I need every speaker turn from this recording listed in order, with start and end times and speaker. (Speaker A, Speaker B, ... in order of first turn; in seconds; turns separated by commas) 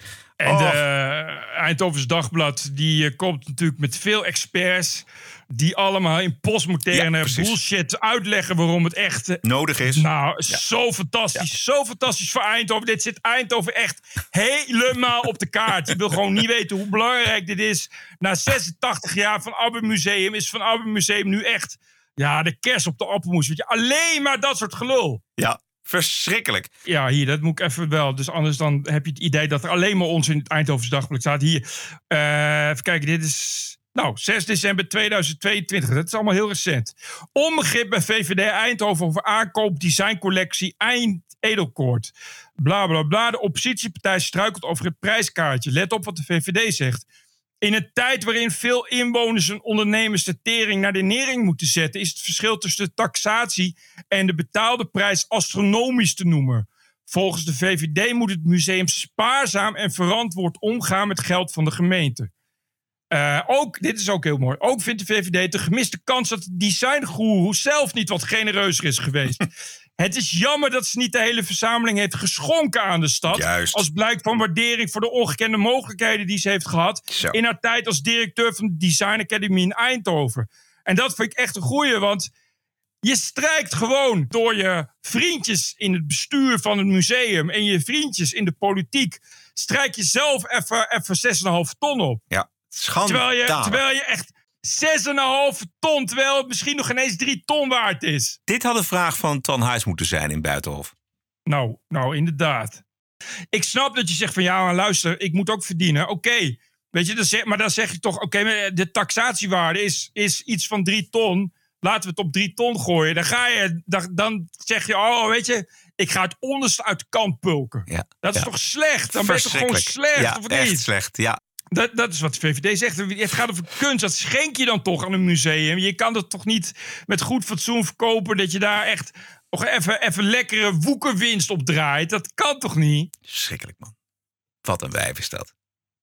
Speaker A: 0.4-25.2, Speaker B: 0.4-0.8, Speaker B: 6.9-7.6, Speaker B: 9.4-10.6, Speaker B: 25.4-26.7, Speaker A: 26.9-47.0, Speaker A: 47.6-62.3, Speaker A: 63.1-69.4, Speaker A: 70.0-82.3, Speaker B: 73.3-73.9, Speaker B: 77.1-77.4, Speaker A: 83.0-92.2, Speaker B: 92.3-93.8, Speaker A: 93.1-98.4, Speaker B: 98.5-100.9, Speaker A: 101.5-102.8, Speaker A: 103.5-120.9, Speaker B: 117.9-118.5, Speaker B: 119.2-121.4, Speaker A: 121.7-133.1, Speaker B: 133.3-133.9, Speaker B: 134.6-135.5